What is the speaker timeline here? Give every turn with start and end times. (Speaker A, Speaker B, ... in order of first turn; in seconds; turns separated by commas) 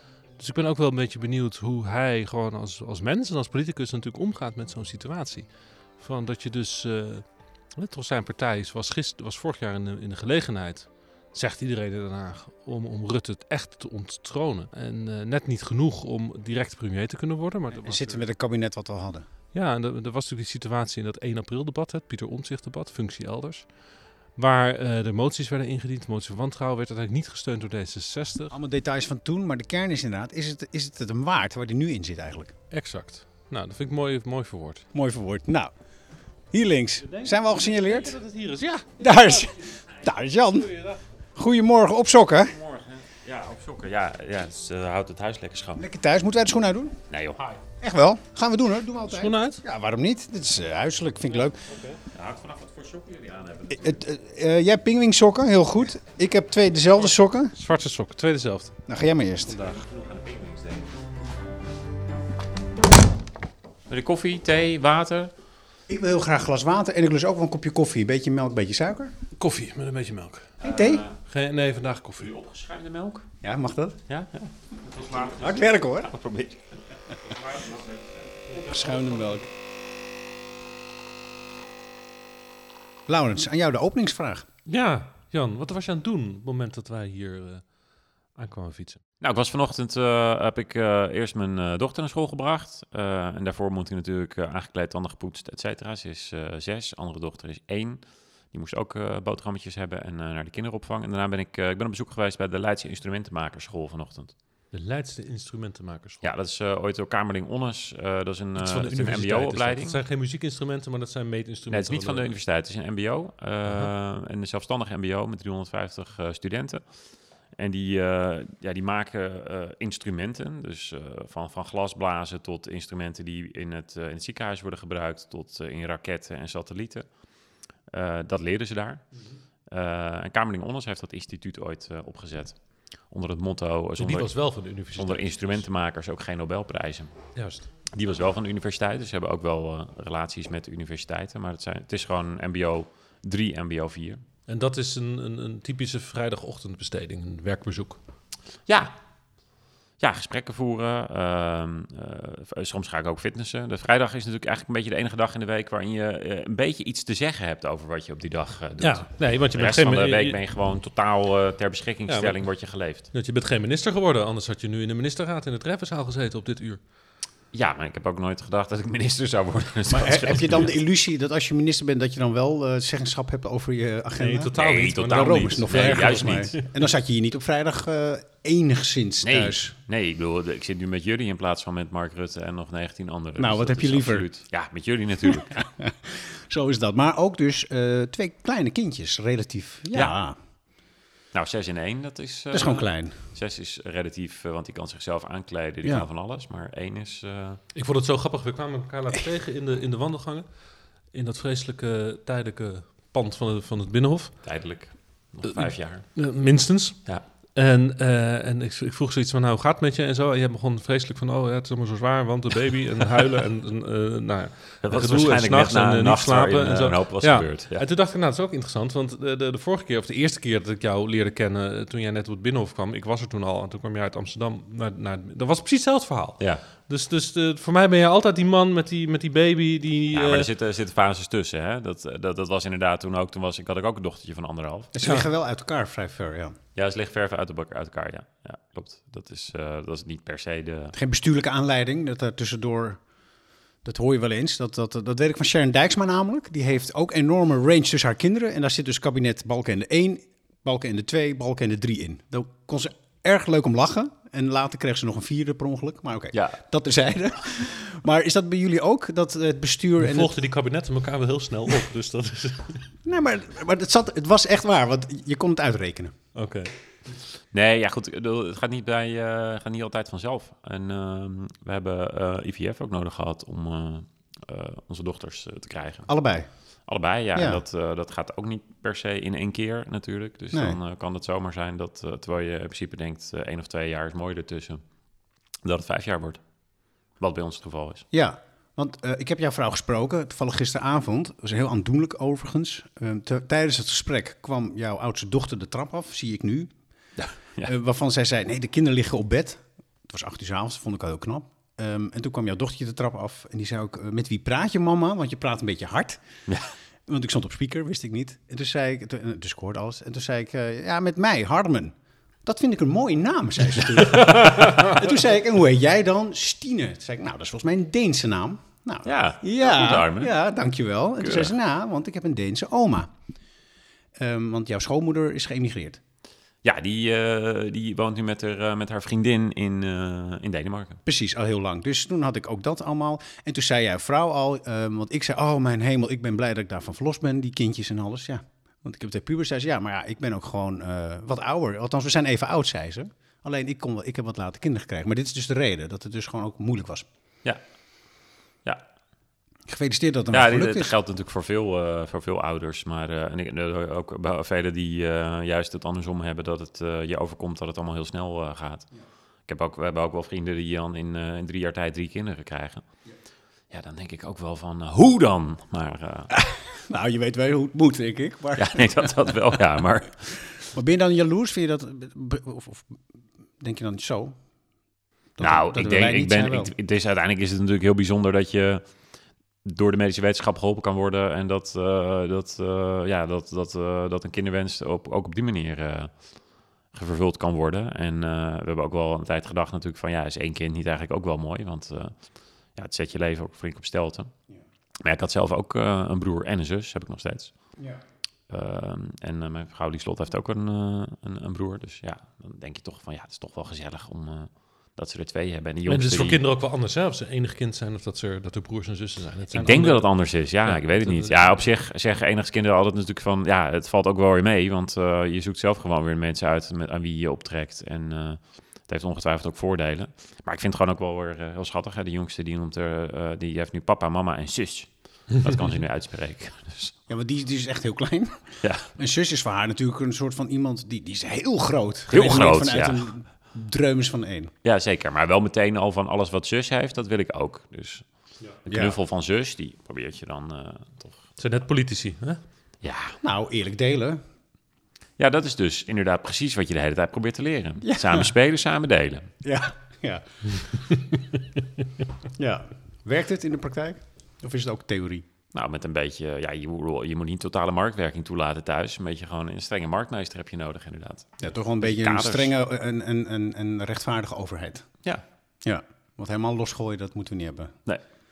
Speaker A: 0.4-18.2, Speaker B: 17.7-19.2, Speaker A: 19.5-23.7, Speaker A: 24.4-28.6, Speaker B: 28.5-32.5, Speaker A: 32.7-34.9, Speaker B: 34.9-35.7, Speaker B: 36.5-38.2, Speaker A: 37.0-39.8, Speaker B: 39.0-40.7, Speaker A: 40.4-41.0, Speaker B: 41.3-42.5, Speaker C: 42.5-45.8, Speaker B: 45.8-47.0, Speaker C: 47.1-47.4, Speaker B: 47.8-51.6, Speaker A: 49.1-49.6, Speaker A: 51.4-52.0, Speaker C: 52.1-54.0, Speaker B: 53.7-57.5, Speaker A: 57.5-58.7, Speaker B: 58.9-59.6, Speaker C: 59.5-61.0, Speaker C: 63.9-65.3, Speaker B: 65.9-69.1, Speaker A: 69.4-70.5, Speaker B: 70.6-71.0, Speaker C: 70.6-71.2, Speaker A: 71.3-72.3, Speaker C: 72.2-73.2, Speaker B: 73.4-74.0, Speaker C: 74.1-76.6, Speaker B: 75.3-76.1, Speaker A: 78.5-79.4, Speaker B: 78.5-79.5, Speaker B: 83.1-84.5, Speaker A: 84.7-87.6, Speaker A: 88.3-89.0, Speaker C: 89.2-104.3, Speaker A: 104.7-106.3, Speaker C: 106.2-110.0, Speaker A: 108.5-112.3, Speaker C: 111.7-116.8, Speaker A: 113.7-113.9, Speaker C: 117.5-127.1, Speaker C: 127.9-129.0, Speaker C: 129.7-134.3, Speaker A: 134.0-135.6, Speaker C: 134.9-137.1, Speaker A: 137.3-137.7, Speaker C: 137.9-144.2, Speaker A: 144.5-148.0, Speaker C: 148.7-148.9, Speaker C: 150.0-163.1, Speaker A: 158.8-160.4, Speaker A: 162.1-162.4, Speaker A: 163.1-166.8, Speaker C: 167.5-170.8, Speaker B: 169.9-179.7, Speaker A: 174.2-176.7, Speaker C: 174.5-176.6, Speaker C: 179.2-185.7, Speaker B: 183.4-184.3, Speaker B: 185.2-190.4, Speaker C: 191.3-197.6, Speaker B: 192.5-193.2, Speaker A: 197.7-200.4, Speaker A: 201.1-204.3, Speaker C: 204.4-206.1, Speaker A: 205.5-207.0, Speaker A: 207.5-230.5, Speaker C: 214.8-217.8, Speaker C: 230.1-234.9, Speaker B: 234.9-236.6, Speaker A: 235.0-235.3, Speaker C: 236.8-240.9, Speaker B: 240.9-243.0, Speaker B: 243.8-260.3, Speaker C: 256.3-256.6, Speaker A: 260.0-262.8, Speaker B: 263.0-266.1, Speaker A: 266.3-266.7, Speaker C: 267.5-276.1, Speaker B: 276.1-276.5, Speaker C: 276.9-284.8, Speaker B: 277.3-277.6, Speaker B: 280.5-280.8, Speaker C: 285.6-286.4, Speaker C: 287.2-288.0, Speaker B: 288.1-296.7, Speaker C: 297.2-297.7, Speaker B: 297.6-306.2, Speaker B: 307.1-323.1, Speaker A: 314.3-314.9, Speaker C: 319.0-320.3, Speaker C: 321.2-321.5, Speaker B: 324.2-326.0, Speaker C: 326.6-331.0, Speaker B: 331.1-347.1, Speaker B: 349.7-350.9, Speaker C: 350.3-358.9, Speaker C: 359.5-362.8, Speaker C: 363.7-366.3, Speaker B: 366.3-369.6, Speaker C: 368.6-370.4, Speaker B: 370.6-373.0, Speaker B: 373.6-374.4, Speaker B: 375.4-376.7, Speaker C: 375.4-378.8, Speaker C: 379.6-386.1, Speaker C: 386.9-392.1, Speaker C: 392.7-394.3, Speaker C: 395.0-397.5, Speaker C: 398.5-406.4, Speaker A: 405.9-411.6, Speaker C: 409.5-426.9, Speaker B: 427.1-434.5, Speaker C: 428.6-428.9, Speaker C: 432.1-433.1, Speaker C: 434.6-438.1, Speaker C: 438.6-441.2, Speaker B: 438.7-439.0, Speaker A: 441.4-442.4, Speaker C: 442.8-443.2, Speaker B: 443.2-444.2, Speaker C: 445.2-449.3, Speaker B: 447.8-448.3, Speaker B: 449.4-450.8, Speaker B: 452.4-455.2, Speaker C: 455.5-462.5, Speaker B: 461.4-464.9, Speaker B: 465.6-467.7